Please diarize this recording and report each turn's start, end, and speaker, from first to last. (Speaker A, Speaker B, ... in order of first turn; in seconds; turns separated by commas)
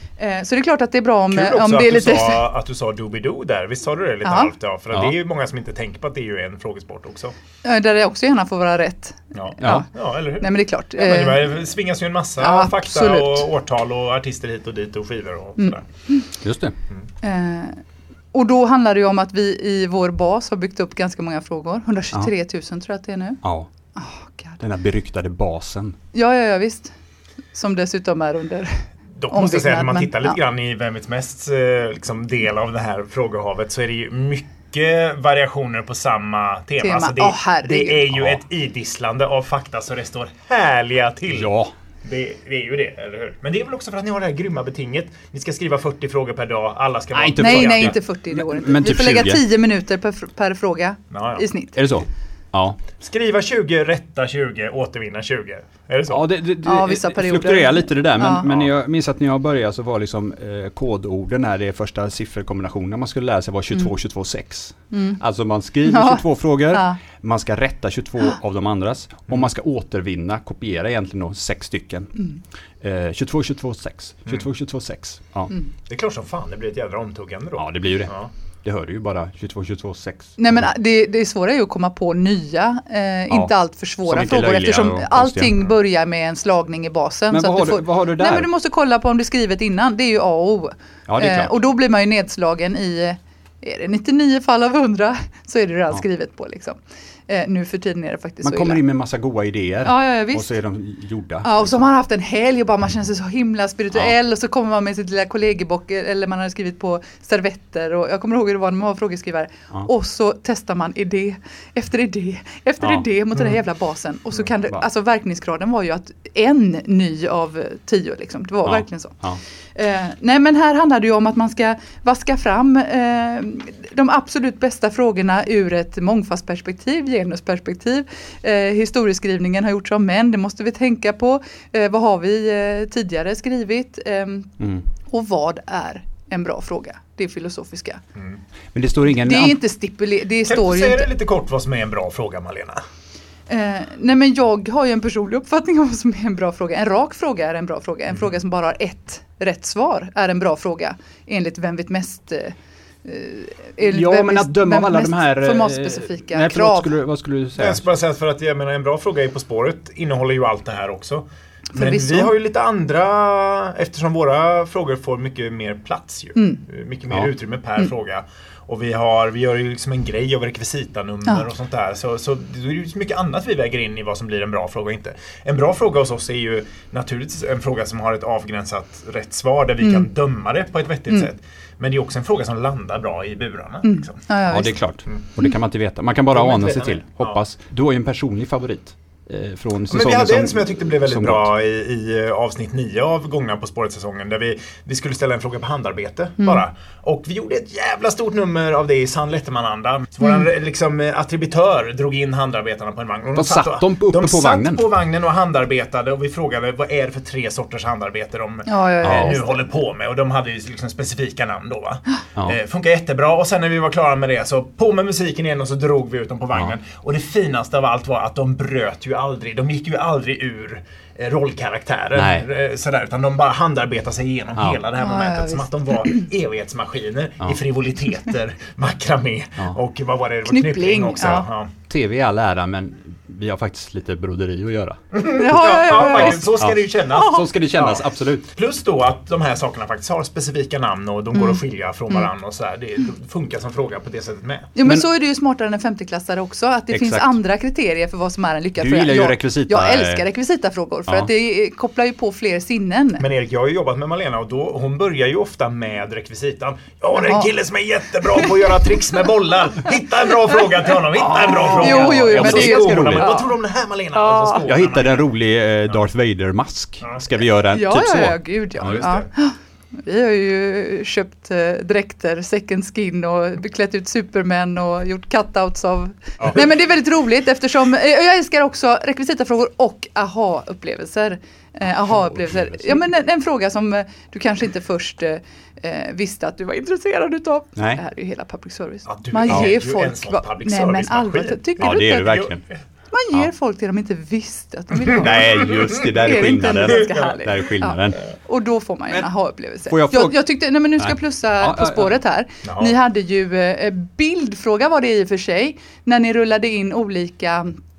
Speaker A: 0.2-2.5, Speaker B: 1.3-7.3, Speaker A: 4.2-4.5, Speaker A: 7.6-9.9, Speaker B: 9.3-15.8, Speaker C: 9.6-9.8, Speaker A: 10.4-11.5, Speaker A: 12.4-13.5, Speaker A: 15.6-16.3, Speaker C: 16.4-16.7, Speaker A: 17.2-17.8, Speaker A: 18.3-23.4, Speaker C: 23.4-23.7, Speaker A: 23.9-24.6, Speaker C: 24.6-26.0, Speaker A: 26.1-26.9, Speaker A: 27.5-30.4, Speaker B: 29.2-41.5, Speaker A: 36.8-38.1, Speaker C: 41.3-41.7, Speaker B: 42.0-47.9, Speaker C: 47.1-49.4, Speaker A: 47.4-51.8, Speaker B: 51.1-51.4, Speaker C: 51.8-52.8, Speaker B: 53.0-56.3, Speaker C: 56.1-72.2, Speaker A: 56.6-58.4, Speaker A: 64.9-65.2, Speaker A: 65.8-67.0, Speaker C: 72.8-75.5, Speaker B: 75.9-78.3, Speaker C: 77.5-80.7, Speaker A: 80.4-98.8, Speaker C: 84.0-85.6, Speaker C: 87.3-88.5, Speaker C: 91.1-91.5, Speaker C: 98.4-101.9, Speaker A: 99.8-100.5, Speaker A: 101.4-119.2, Speaker C: 112.8-113.0, Speaker C: 118.7-119.4, Speaker A: 119.7-138.0, Speaker C: 134.6-134.8, Speaker C: 138.7-139.6, Speaker A: 139.2-141.1, Speaker B: 140.4-142.8, Speaker A: 143.5-156.9, Speaker C: 153.8-157.8, Speaker B: 157.6-184.2, Speaker A: 161.7-162.3, Speaker A: 179.8-180.1, Speaker A: 183.8-184.8, Speaker C: 184.5-191.5, Speaker B: 186.3-187.4, Speaker B: 189.9-231.7, Speaker C: 203.3-204.8, Speaker A: 208.7-209.6, Speaker C: 209.0-209.4, Speaker C: 222.1-222.5, Speaker A: 225.0-226.2, Speaker A: 230.4-231.5, Speaker C: 231.9-235.0, Speaker B: 235.1-244.7, Speaker A: 235.3-236.5, Speaker C: 235.9-238.5, Speaker A: 237.1-237.5, Speaker A: 241.3-242.3, Speaker A: 244.8-253.2, Speaker C: 246.9-247.3, Speaker C: 248.8-250.2, Speaker B: 253.2-265.3, Speaker A: 257.1-257.5, Speaker C: 261.1-263.3, Speaker A: 261.4-263.6, Speaker A: 264.1-264.7, Speaker C: 264.6-269.0, Speaker B: 267.0-267.3, Speaker A: 267.7-292.5, Speaker B: 268.8-269.3, Speaker C: 282.0-283.0, Speaker C: 287.8-288.0, Speaker B: 289.1-292.5, Speaker C: 291.8-292.6, Speaker A: 293.1-307.8, Speaker C: 295.1-298.2, Speaker B: 296.8-297.4, Speaker C: 299.9-300.4, Speaker C: 301.0-302.1, Speaker B: 302.6-302.9